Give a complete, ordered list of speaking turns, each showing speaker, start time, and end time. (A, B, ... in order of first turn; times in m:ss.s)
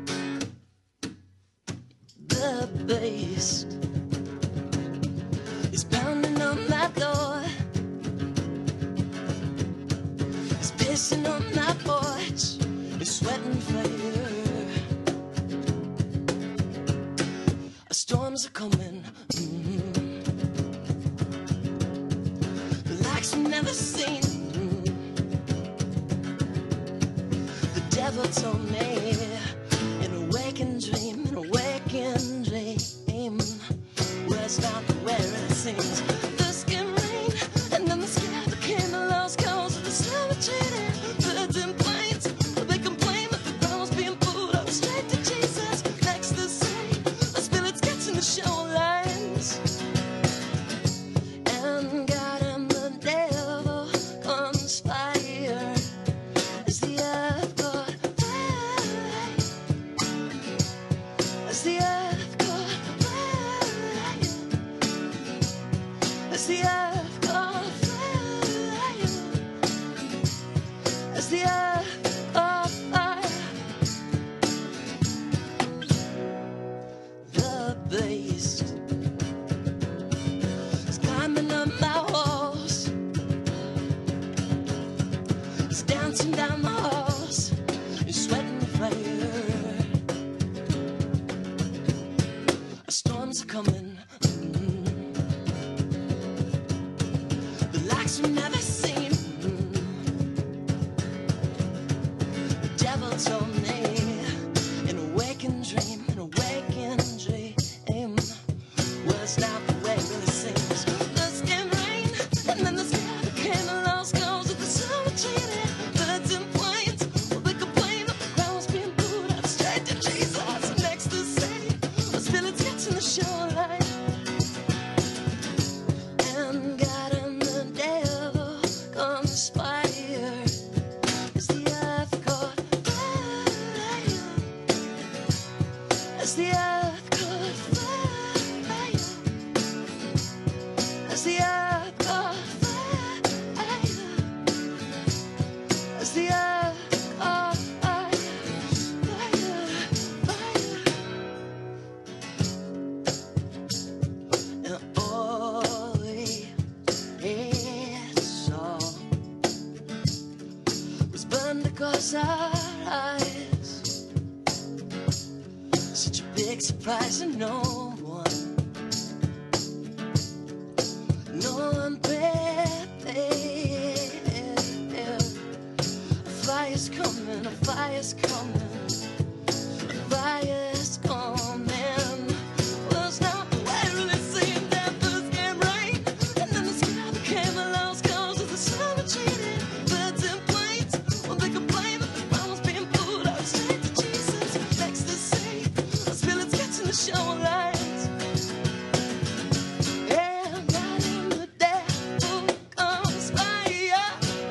0:02.2-0:03.7 A
0:05.7-0:07.5 A
0:10.6-0:14.8 A
0:17.9-0:20.3 A
0:22.8-0:25.1 A
0:27.7-0:49.6 A
0:51.4-0:55.9 A
0:56.6-0:59.5 A
1:01.4-1:04.5 A
1:06.3-1:09.4 A
1:11.1-1:13.6 A
1:17.2-1:18.8 A
1:20.9-1:22.9 A
1:25.7-1:30.0 A
1:32.8-1:35.2 A
1:37.7-1:40.1 A
1:42.6-1:48.4 A
1:49.0-2:04.0 A
2:06.2-2:10.6 A
2:11.3-2:14.5 A
2:16.2-2:19.2 A
2:21.1-2:24.3 A
2:26.0-2:31.0 A
2:34.6-2:36.5 A
2:37.2-2:39.1 A
2:41.1-2:43.9 A
2:45.9-2:48.6 A
2:51.3-2:55.4 A
2:56.2-2:59.0 A
2:59.9-3:18.1 A
3:20.0-3:24.2 A